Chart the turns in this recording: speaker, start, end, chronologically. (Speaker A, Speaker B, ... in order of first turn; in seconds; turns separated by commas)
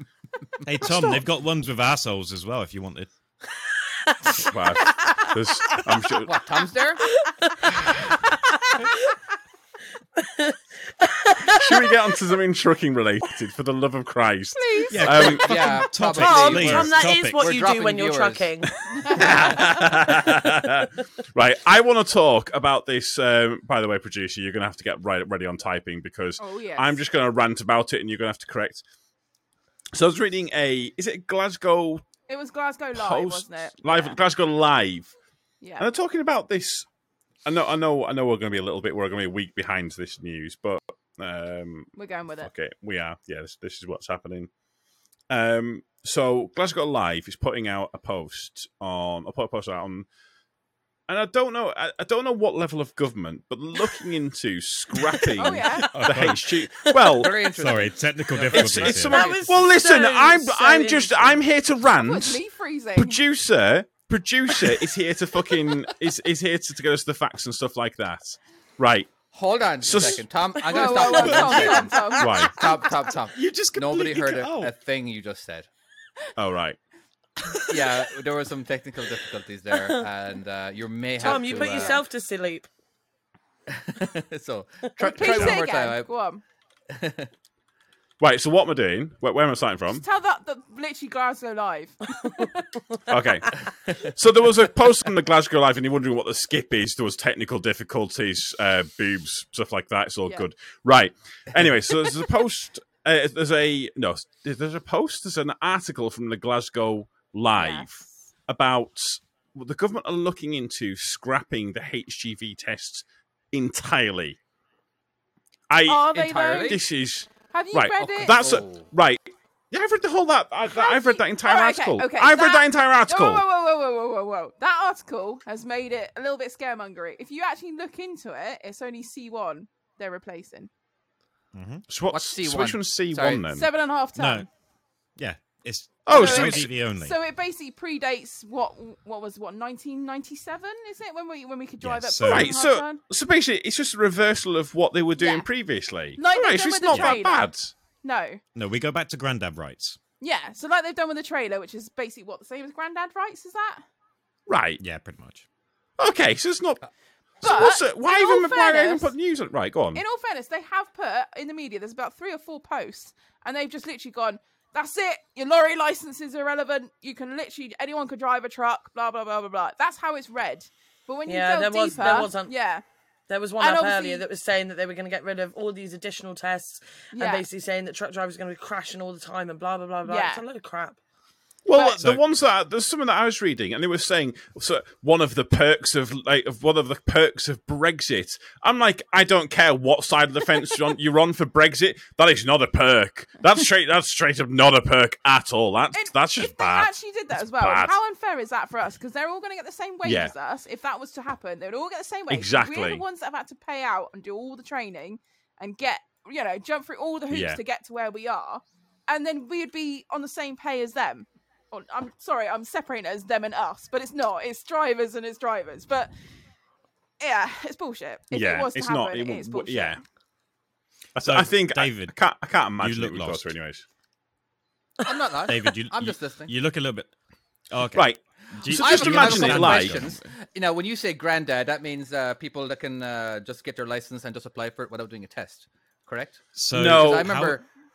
Speaker A: 0.6-3.1, Speaker B: 0.8-1.2, Speaker C: 4.2-4.5, Speaker B: 4.4-6.4, Speaker D: 6.2-7.0, Speaker C: 7.1-8.1, Speaker C: 8.7-9.1, Speaker C: 10.2-12.0, Speaker B: 11.5-15.6, Speaker E: 14.5-15.4, Speaker A: 14.9-17.4, Speaker D: 15.2-18.4, Speaker C: 16.1-19.5, Speaker B: 18.9-28.8, Speaker E: 18.9-19.8, Speaker E: 26.4-27.0, Speaker B: 29.9-32.0, Speaker E: 32.3-34.2, Speaker B: 32.9-35.1, Speaker E: 35.6-35.9, Speaker B: 35.8-36.9, Speaker B: 37.4-44.5, Speaker E: 41.9-42.5, Speaker B: 45.3-50.1, Speaker B: 51.1-57.3, Speaker C: 55.0-56.3, Speaker E: 55.4-55.9, Speaker A: 55.9-56.4, Speaker C: 56.9-57.3, Speaker D: 57.2-59.4, Speaker A: 57.5-59.2, Speaker B: 58.5-62.4, Speaker C: 59.0-61.4, Speaker E: 61.9-63.2, Speaker B: 62.9-69.1, Speaker D: 69.3-75.7, Speaker B: 69.8-70.2, Speaker C: 70.6-73.1, Speaker E: 70.7-72.7, Speaker B: 72.2-72.6, Speaker A: 73.3-74.7, Speaker B: 76.3-76.8, Speaker D: 77.7-82.0, Speaker C: 81.2-82.7, Speaker E: 81.2-82.0, Speaker D: 83.7-86.1, Speaker E: 85.0-86.4, Speaker C: 85.1-85.5, Speaker D: 86.9-87.3, Speaker B: 88.2-90.0, Speaker E: 89.9-92.7, Speaker B: 93.1-114.4, Speaker E: 107.5-108.0, Speaker B: 115.7-123.4, Speaker E: 115.8-116.8, Speaker D: 116.1-116.8, Speaker E: 117.4-118.4, Speaker D: 118.4-118.8, Speaker E: 120.7-130.7, Speaker A: 131.5-131.8, Speaker B: 131.9-133.7, Speaker D: 132.1-133.4, Speaker E: 133.5-134.5, Speaker A: 134.2-134.5, Speaker A: 135.2-137.1, Speaker B: 136.0-136.7, Speaker E: 136.1-143.0, Speaker A: 141.8-142.6, Speaker B: 142.2-147.7, Speaker E: 145.2-145.5, Speaker E: 146.2-148.4, Speaker A: 148.5-150.0, Speaker E: 150.2-153.8, Speaker B: 154.5-154.8, Speaker A: 154.8-155.4, Speaker B: 156.0-156.8, Speaker B: 157.4-160.0, Speaker E: 157.4-159.1, Speaker E: 159.9-172.8, Speaker C: 171.2-172.5, Speaker C: 173.3-181.0, Speaker E: 173.6-174.2, Speaker E: 177.1-177.4, Speaker E: 180.0-180.4, Speaker B: 181.6-197.9, Speaker A: 181.7-182.2, Speaker E: 195.9-216.1, Speaker B: 200.0-200.3, Speaker B: 202.3-203.0, Speaker B: 207.3-207.6, Speaker E: 217.2-220.0, Speaker B: 218.3-220.0, Speaker B: 221.1-223.8, Speaker A: 221.2-222.2, Speaker A: 222.8-223.5, Speaker D: 225.0-226.5, Speaker A: 225.5-227.1, Speaker A: 227.7-230.2, Speaker B: 227.9-230.1, Speaker D: 228.7-237.6, Speaker A: 236.6-237.6, Speaker B: 236.7-237.3